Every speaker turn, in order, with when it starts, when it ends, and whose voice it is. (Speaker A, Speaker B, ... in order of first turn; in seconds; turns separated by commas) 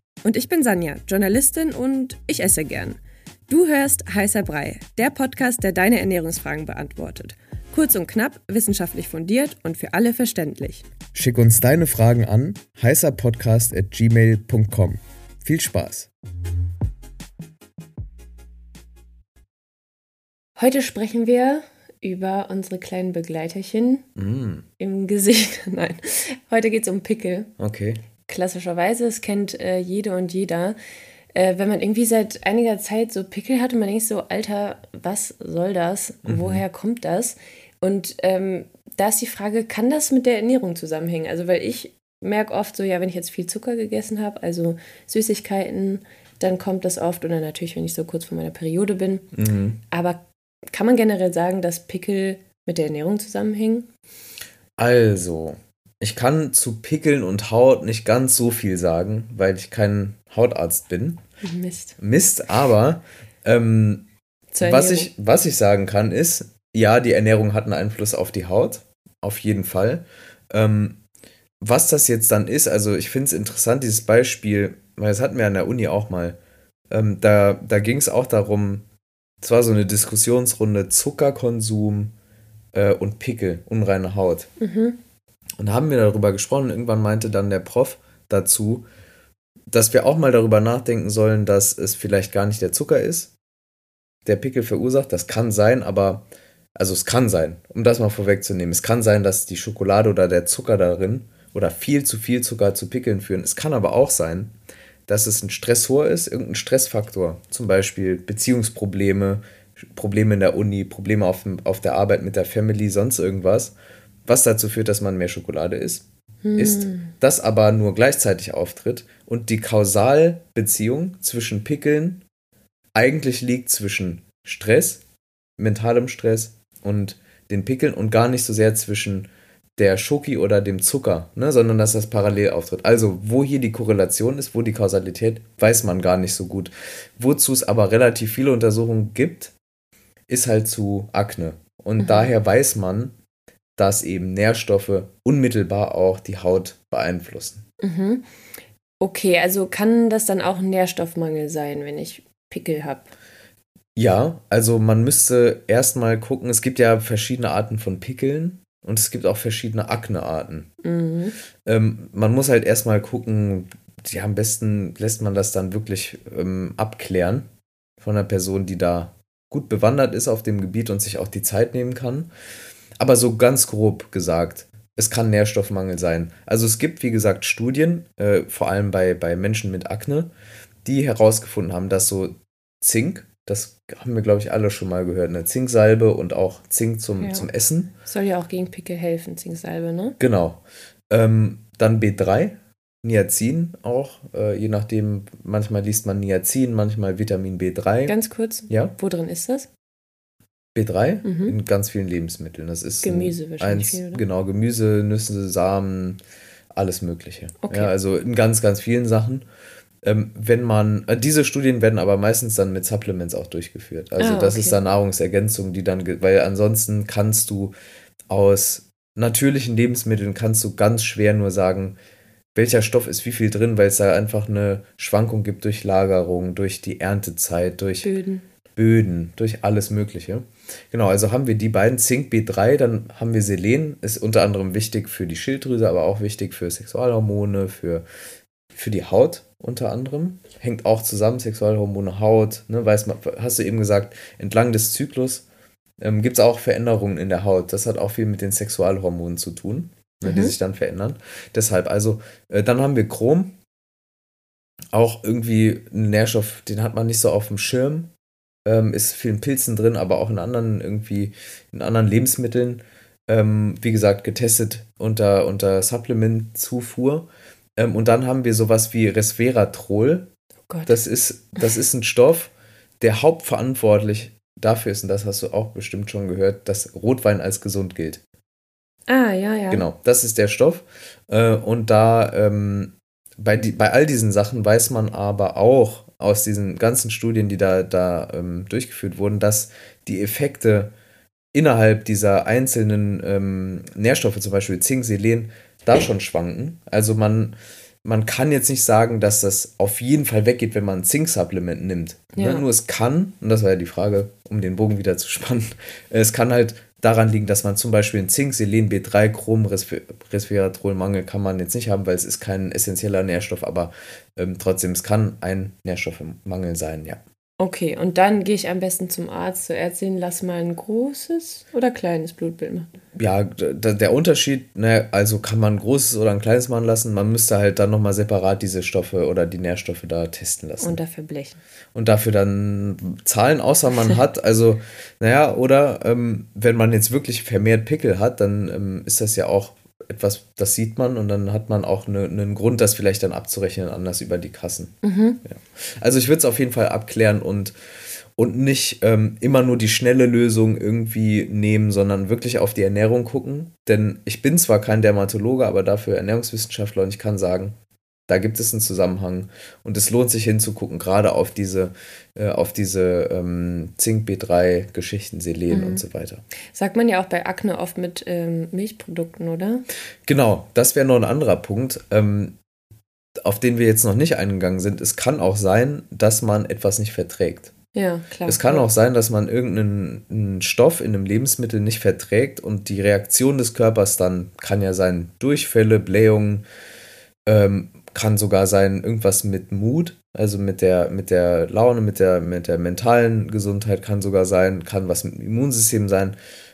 Speaker A: 0.2-10.9, Speaker B: 11.1-16.1, Speaker A: 20.6-24.1, Speaker B: 24.2-24.7, Speaker A: 24.8-27.5, Speaker B: 27.6-28.0, Speaker A: 28.3-30.8, Speaker A: 31.3-49.3, Speaker B: 36.2-36.6, Speaker B: 49.3-49.8, Speaker A: 49.9-53.9, Speaker B: 54.8-61.2, Speaker A: 61.4-62.0, Speaker B: 62.0-64.0, Speaker A: 64.5-65.1, Speaker B: 64.6-71.0, Speaker B: 71.6-76.4, Speaker B: 76.9-78.8, Speaker B: 79.4-82.1, Speaker B: 82.7-84.5, Speaker A: 84.6-85.0, Speaker B: 85.6-88.9, Speaker B: 89.7-93.3, Speaker B: 94.3-104.5, Speaker B: 105.1-109.4, Speaker B: 110.0-113.7, Speaker B: 114.3-116.0, Speaker A: 116.4-117.1, Speaker B: 116.6-122.2, Speaker B: 123.0-125.0, Speaker B: 125.6-139.5, Speaker B: 140.3-143.1, Speaker A: 142.0-142.3, Speaker B: 143.8-147.6, Speaker A: 147.8-148.3, Speaker A: 149.0-153.1, Speaker B: 154.0-160.7, Speaker A: 160.8-161.3, Speaker B: 161.7-167.4, Speaker B: 168.0-172.3, Speaker B: 173.0-180.3, Speaker B: 180.8-187.9, Speaker A: 187.2-187.5, Speaker A: 188.1-190.2, Speaker B: 190.2-198.2, Speaker A: 198.1-199.7, Speaker B: 198.7-198.9, Speaker B: 200.8-206.2, Speaker A: 201.2-201.6, Speaker A: 203.0-204.2, Speaker B: 206.7-209.4, Speaker A: 207.6-207.9, Speaker B: 210.0-217.7, Speaker A: 214.2-214.8, Speaker B: 218.3-222.0, Speaker B: 222.6-228.1, Speaker A: 228.0-228.4, Speaker B: 228.8-238.1, Speaker B: 238.7-245.4, Speaker B: 246.0-253.5, Speaker A: 250.2-250.5, Speaker B: 254.9-258.1, Speaker B: 258.6-270.3, Speaker A: 270.7-271.0, Speaker B: 270.9-278.2, Speaker A: 279.1-279.9, Speaker B: 279.7-290.9, Speaker B: 291.5-317.2, Speaker A: 302.3-302.6, Speaker A: 317.6-322.9, Speaker B: 323.2-331.0, Speaker A: 330.8-331.6, Speaker B: 331.9-344.9, Speaker A: 345.0-345.4, Speaker B: 345.4-347.8, Speaker B: 348.4-357.8, Speaker B: 358.3-366.4, Speaker A: 365.7-366.1, Speaker A: 366.7-369.9, Speaker B: 370.3-372.6, Speaker B: 373.4-377.7, Speaker A: 377.9-378.9, Speaker B: 378.5-386.6, Speaker B: 387.5-396.4